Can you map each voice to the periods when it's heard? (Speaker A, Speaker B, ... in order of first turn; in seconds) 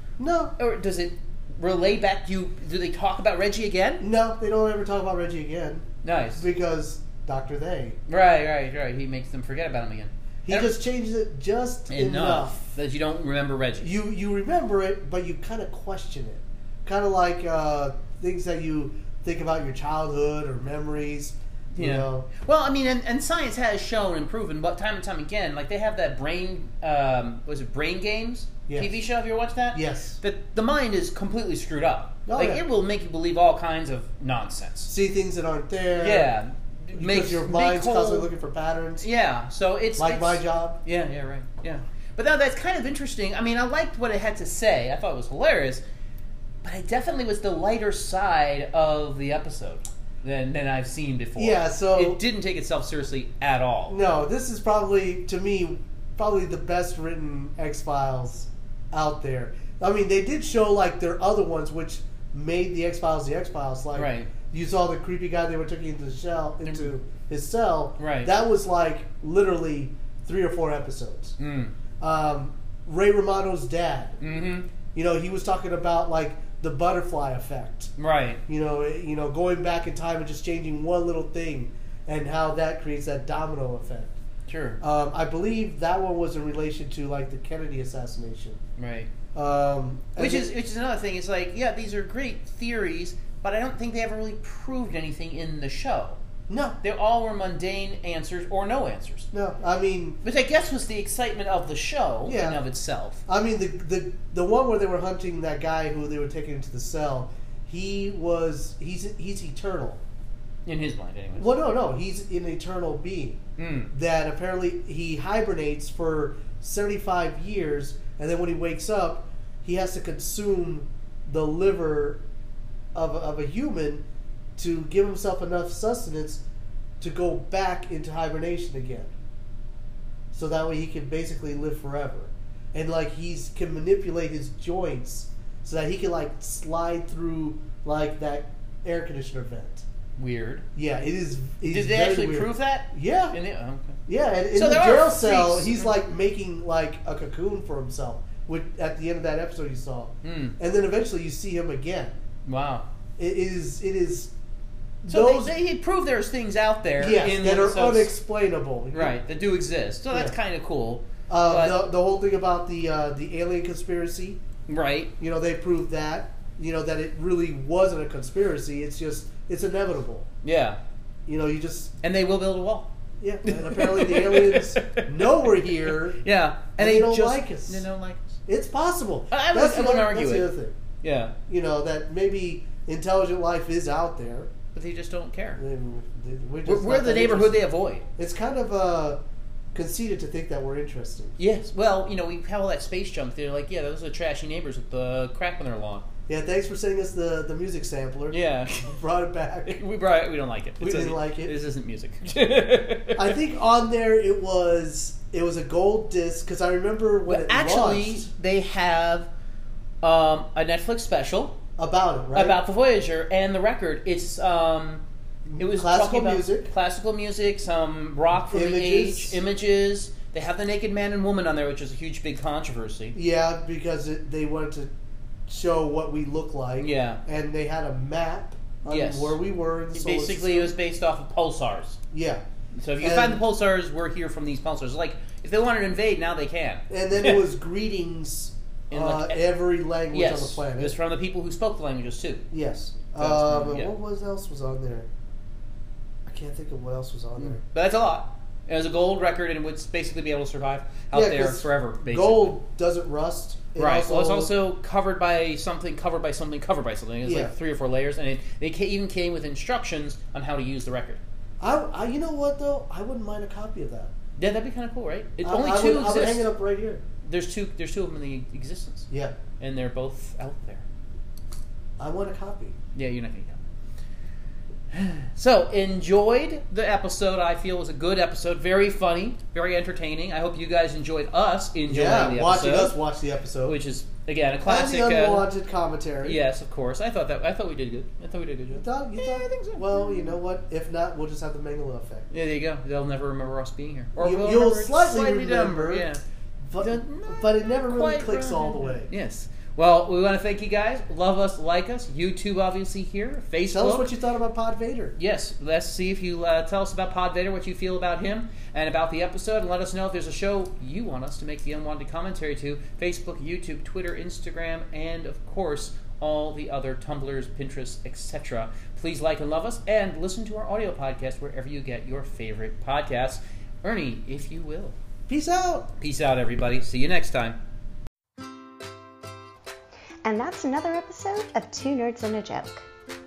Speaker A: 0.2-0.5, 4.0-8.0, 10.4-12.6, 13.8-22.3, 28.7-29.1, 29.7-30.2, 32.2-32.6, 34.9-36.4, 36.9-39.0, 40.0-40.8, 51.4-52.2, 53.9-71.3, 72.0-74.2, 74.9-77.9, 78.5-84.2, 84.8-88.6, 89.3-90.5, 96.5-96.8, 99.3-100.2, 102.2-102.6, 103.3-110.0, 111.4-122.2, 122.9-124.0, 124.5-126.4, 127.0-129.1, 130.3-139.8, 140.7-143.4, 144.1-152.2, 153.2-154.3, 155.0-155.6, 157.0-159.2, 161.3-164.4, 165.2-170.3, 171.2-171.9, 173.2-176.2, 176.8-177.8, 178.4-180.7, 181.5-184.5, 185.6-187.6, 188.2-189.2, 189.7-191.3, 196.3-199.8, 200.8-201.5, 203.1-208.3, 211.8-212.6, 215.5-216.7, 218.5-219.4, 223.1-224.9, 225.5-230.7, 232.1-232.4, 233.0-233.4, 236.9-240.9, 242.5-245.1, 246.2-247.6, 251.1-254.5, 257.2-257.5, 261.6-264.1, 265.4-267.0, 269.1-269.4, 272.0-272.7, 281.9-283.8, 284.6-286.4, 288.7-292.3, 294.1-296.1, 296.6-299.1, 303.7-305.1, 325.3-325.9
Speaker B: 0.6-4.0, 6.0-6.5, 8.1-10.8, 11.9-13.9, 21.7-34.9, 36.0-38.3, 39.0-45.8, 46.6-54.0, 63.9-64.3, 66.6-66.9, 68.0-68.3, 71.4-71.7, 74.2-74.7, 78.0-78.4, 84.5-84.8, 88.8-89.1, 90.2-96.2, 96.8-99.3, 100.2-103.2, 110.7-111.6, 113.6-113.9, 140.2-140.7, 141.6-144.0, 144.5-146.0, 150.2-150.6, 152.4-152.8, 155.1-158.2, 158.9-161.9, 164.7-165.1, 170.4-170.8, 172.0-172.9, 173.4-178.4, 179.3-181.3, 184.7-185.6, 186.6-188.1, 191.4-196.0, 198.3-198.9, 199.7-203.3, 207.2-209.3, 210.0-211.6, 212.3-215.0, 215.5-223.2, 226.8-227.2, 228.8-229.4, 229.9-232.0, 232.7-237.4, 238.9-239.6, 240.1-242.4, 243.2-243.9, 247.4-252.6, 253.8-261.2, 264.4-266.5, 267.2-269.1, 269.6-270.8, 272.9-273.6, 274.9-282.9, 283.6-285.5, 286.2-290.1, 292.3-296.2, 296.8-304.1, 305.2-324.9, 326.0-327.6
Speaker C: 330.2-332.8